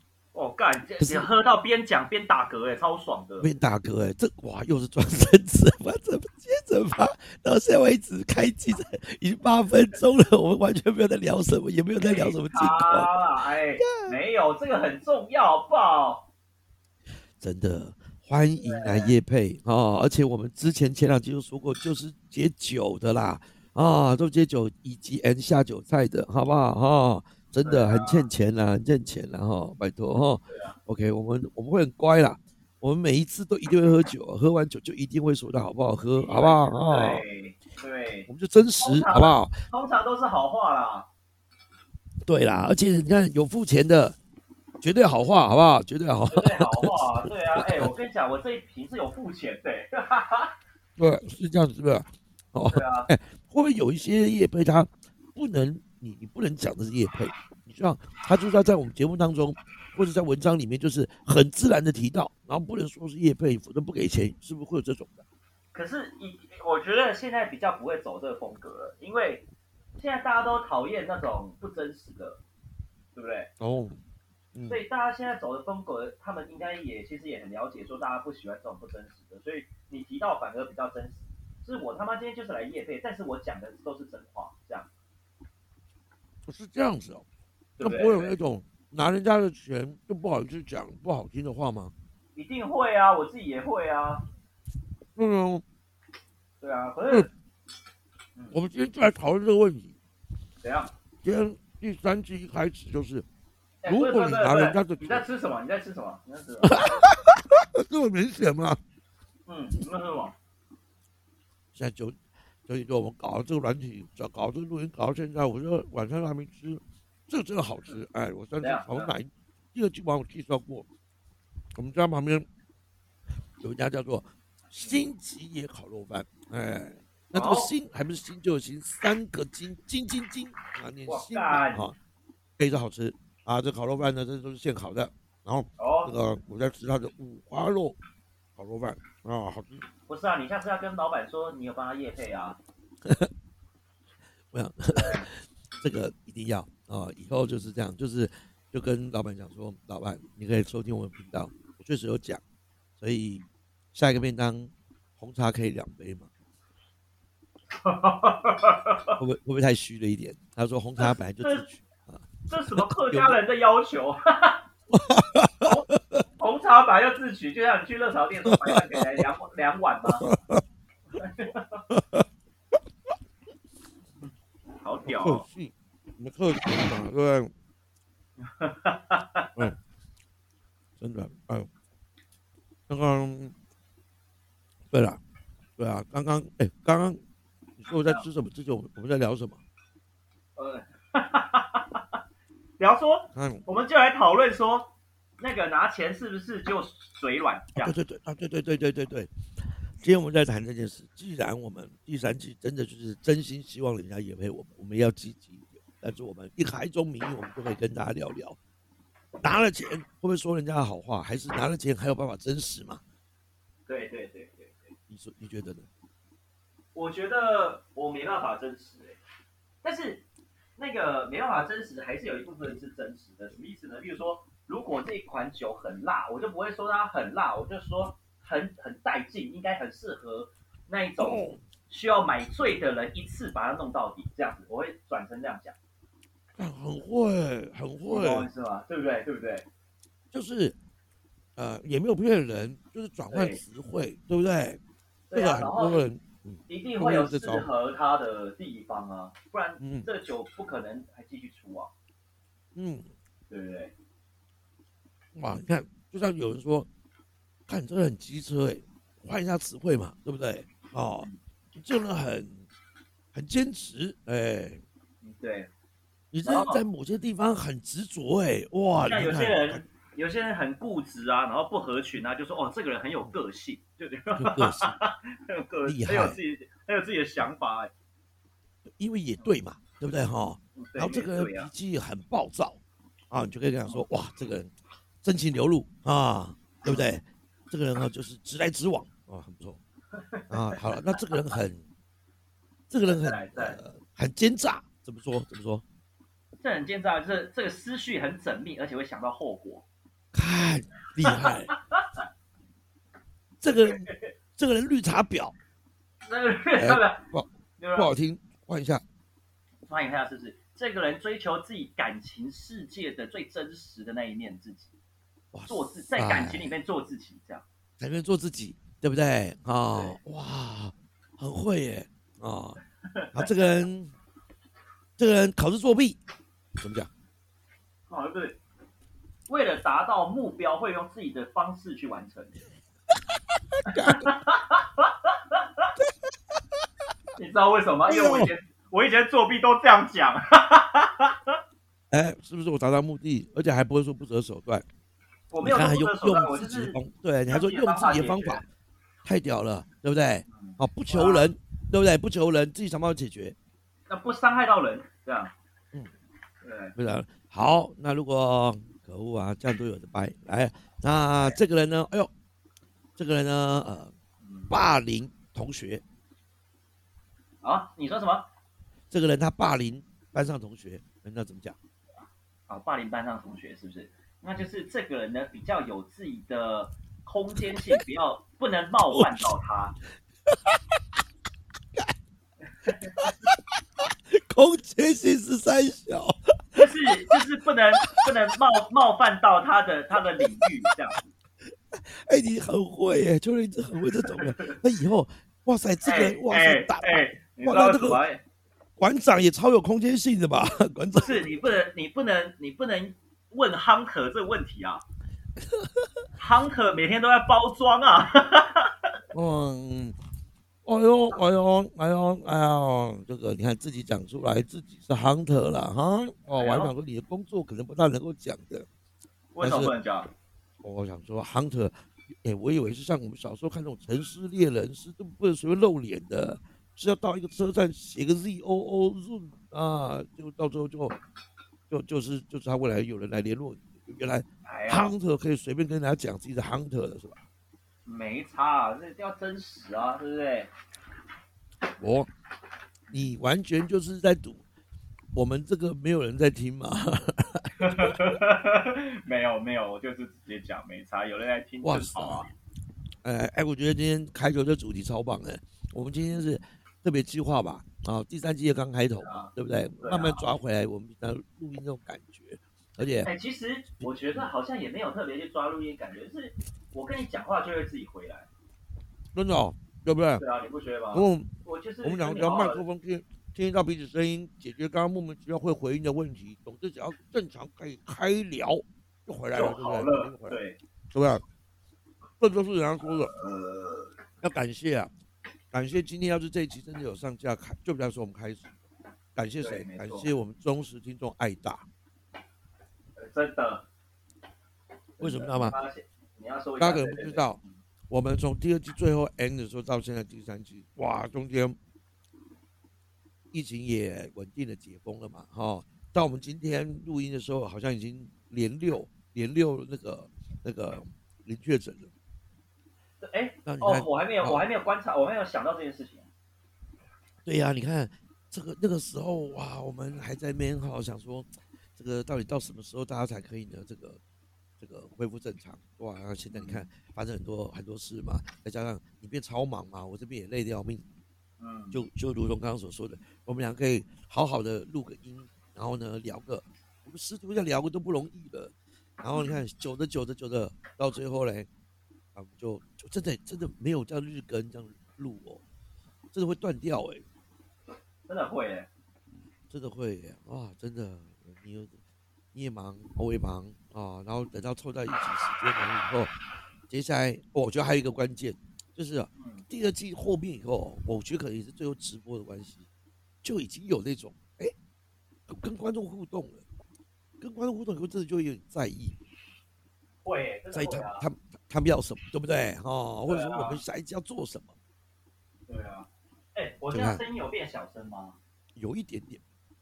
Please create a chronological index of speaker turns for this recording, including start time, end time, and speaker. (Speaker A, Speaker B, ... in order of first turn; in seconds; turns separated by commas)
Speaker A: 0.3-3.5, Speaker B: 1.0-1.3, Speaker B: 3.4-13.2, Speaker A: 12.0-16.3, Speaker B: 13.8-14.2, Speaker B: 17.4-37.2, Speaker A: 18.6-19.1, Speaker A: 27.6-28.3, Speaker A: 30.5-30.8, Speaker A: 36.2-38.3, Speaker B: 38.3-39.6, Speaker A: 38.8-41.1, Speaker B: 42.2-44.2, Speaker B: 44.8-47.9, Speaker A: 46.3-50.5, Speaker B: 51.0-65.2, Speaker A: 52.7-53.1, Speaker A: 65.7-69.5, Speaker A: 70.0-72.4, Speaker A: 73.2-73.5, Speaker B: 73.6-74.0, Speaker B: 74.5-74.8, Speaker A: 74.7-84.9, Speaker B: 86.5-87.2, Speaker A: 87.8-88.4, Speaker B: 87.8-91.9, Speaker A: 92.3-94.3, Speaker B: 95.2-95.6, Speaker A: 96.6-97.3, Speaker B: 98.5-100.0, Speaker A: 100.6-100.9, Speaker B: 101.2-103.2, Speaker A: 103.8-107.0, Speaker B: 103.8-105.2, Speaker B: 106.6-108.8, Speaker A: 109.5-110.3, Speaker B: 111.7-120.9, Speaker A: 118.6-119.1, Speaker B: 121.8-122.5, Speaker B: 123.6-131.9, Speaker A: 127.3-127.7, Speaker A: 131.1-131.9, Speaker B: 132.6-138.0, Speaker A: 135.8-136.1, Speaker B: 138.6-139.8, Speaker A: 140.1-142.6, Speaker B: 143.1-143.3, Speaker B: 144.5-152.4, Speaker A: 144.9-145.3, Speaker B: 153.0-156.3, Speaker A: 157.7-159.2, Speaker B: 159.2-163.4, Speaker A: 161.0-161.7, Speaker A: 162.5-164.7, Speaker B: 164.9-166.2, Speaker A: 165.6-170.3, Speaker B: 168.5-169.2, Speaker B: 170.2-170.6, Speaker A: 171.2-171.8, Speaker B: 171.9-172.2, Speaker A: 174.8-175.5, Speaker B: 175.1-177.5, Speaker A: 178.4-179.7, Speaker B: 181.0-181.7, Speaker B: 182.9-183.6, Speaker B: 184.9-185.2, Speaker B: 185.8-187.2, Speaker B: 187.8-189.6, Speaker A: 188.0-188.3, Speaker A: 190.6-192.0, Speaker A: 192.8-198.0, Speaker B: 193.3-193.6, Speaker B: 197.8-208.6, Speaker B: 209.4-213.0, Speaker A: 213.9-214.9, Speaker B: 215.1-215.9, Speaker A: 216.9-219.2, Speaker A: 219.8-220.2, Speaker A: 220.8-235.8, Speaker B: 231.2-231.6, Speaker B: 236.6-238.5, Speaker A: 238.1-239.7, Speaker B: 240.3-240.8, Speaker B: 241.6-244.8, Speaker A: 243.3-243.6, Speaker A: 245.3-246.0, Speaker B: 245.3-247.7, Speaker A: 246.7-251.9, Speaker B: 249.8-250.1, Speaker B: 252.8-253.1, Speaker A: 253.5-253.9, Speaker B: 255.3-256.9, Speaker B: 257.7-262.7, Speaker B: 263.3-264.8, Speaker A: 265.2-265.7, Speaker B: 266.3-269.8, Speaker A: 266.4-266.8, Speaker A: 269.1-277.9, Speaker B: 274.4-275.0, Speaker B: 275.9-276.4, Speaker B: 279.0-284.7, Speaker A: 280.8-281.7, Speaker B: 285.2-289.8, Speaker A: 290.1-291.2, Speaker B: 290.5-291.9, Speaker B: 292.9-295.8, Speaker A: 293.1-293.8, Speaker A: 296.6-299.9, Speaker B: 300.3-301.7, Speaker A: 301.2-302.0, Speaker B: 303.6-305.6, Speaker A: 303.8-304.3, Speaker A: 306.3-307.3, Speaker B: 306.8-309.0, Speaker A: 307.8-308.1, Speaker A: 309.9-314.9, Speaker B: 315.5-316.8, Speaker A: 315.7-317.6, Speaker B: 318.0-322.8, Speaker A: 319.9-320.2, Speaker A: 323.1-323.5, Speaker B: 323.3-324.1, Speaker B: 325.2-326.2, Speaker B: 326.8-327.1, Speaker A: 328.1-328.6, Speaker A: 329.5-332.6, Speaker A: 333.9-335.9, Speaker B: 333.9-334.3, Speaker A: 337.4-341.6, Speaker B: 338.1-338.5, Speaker B: 342.1-344.9, Speaker A: 345.5-348.6, Speaker B: 345.6-348.7, Speaker B: 349.2-353.6, Speaker A: 350.5-351.5, Speaker A: 354.1-355.5, Speaker A: 356.6-356.9, Speaker B: 357.0-362.3, Speaker B: 363.2-364.1, Speaker A: 364.4-364.8, Speaker B: 364.7-366.0, Speaker A: 367.6-368.5, Speaker B: 369.1-371.8, Speaker A: 372.7-380.0, Speaker B: 379.1-379.5, Speaker A: 382.9-383.2, Speaker B: 383.2-387.4, Speaker A: 386.8-391.3, Speaker B: 391.9-398.2, Speaker A: 394.3-394.8, Speaker A: 396.0-398.4, Speaker B: 399.0-401.6, Speaker A: 401.1-405.0, Speaker A: 406.4-408.9, Speaker B: 409.3-410.2, Speaker B: 410.9-418.9, Speaker A: 416.5-416.9, Speaker A: 419.6-420.3, Speaker B: 419.6-419.9, Speaker B: 420.8-431.2, Speaker B: 431.9-437.4, Speaker A: 434.6-435.1, Speaker A: 438.1-440.7, Speaker B: 442.0-442.3, Speaker B: 443.1-444.6, Speaker B: 445.3-448.3, Speaker A: 447.8-452.5, Speaker B: 451.8-452.5, Speaker B: 453.2-463.3, Speaker A: 459.2-460.4, Speaker A: 463.2-468.5, Speaker B: 464.0-464.5, Speaker B: 469.3-470.4, Speaker A: 470.4-472.8, Speaker B: 471.1-480.6, Speaker A: 479.5-480.8, Speaker B: 481.1-481.4, Speaker B: 482.4-483.3, Speaker A: 483.3-484.0, Speaker B: 484.4-485.1, Speaker B: 485.7-488.7, Speaker B: 489.4-491.9, Speaker A: 489.6-490.3, Speaker A: 493.2-493.9, Speaker A: 495.2-497.7, Speaker B: 495.2-495.8, Speaker B: 496.8-501.8, Speaker B: 503.5-512.1, Speaker A: 513.2-516.3, Speaker B: 513.6-514.7, Speaker B: 517.5-524.2, Speaker B: 524.8-531.1, Speaker A: 526.5-526.9, Speaker A: 531.6-532.0, Speaker B: 531.9-541.7, Speaker A: 539.3-539.6, Speaker B: 542.4-545.6, Speaker B: 546.3-547.2, Speaker A: 548.3-548.9, Speaker B: 549.7-552.0, Speaker B: 552.5-556.4, Speaker B: 556.9-562.9, Speaker A: 559.4-559.7, Speaker B: 563.4-564.7, Speaker B: 565.5-566.6, Speaker B: 567.4-569.2, Speaker A: 570.2-571.2, Speaker B: 570.7-574.8, Speaker A: 573.3-573.8, Speaker A: 575.7-578.4, Speaker B: 576.9-577.2, Speaker B: 578.8-579.4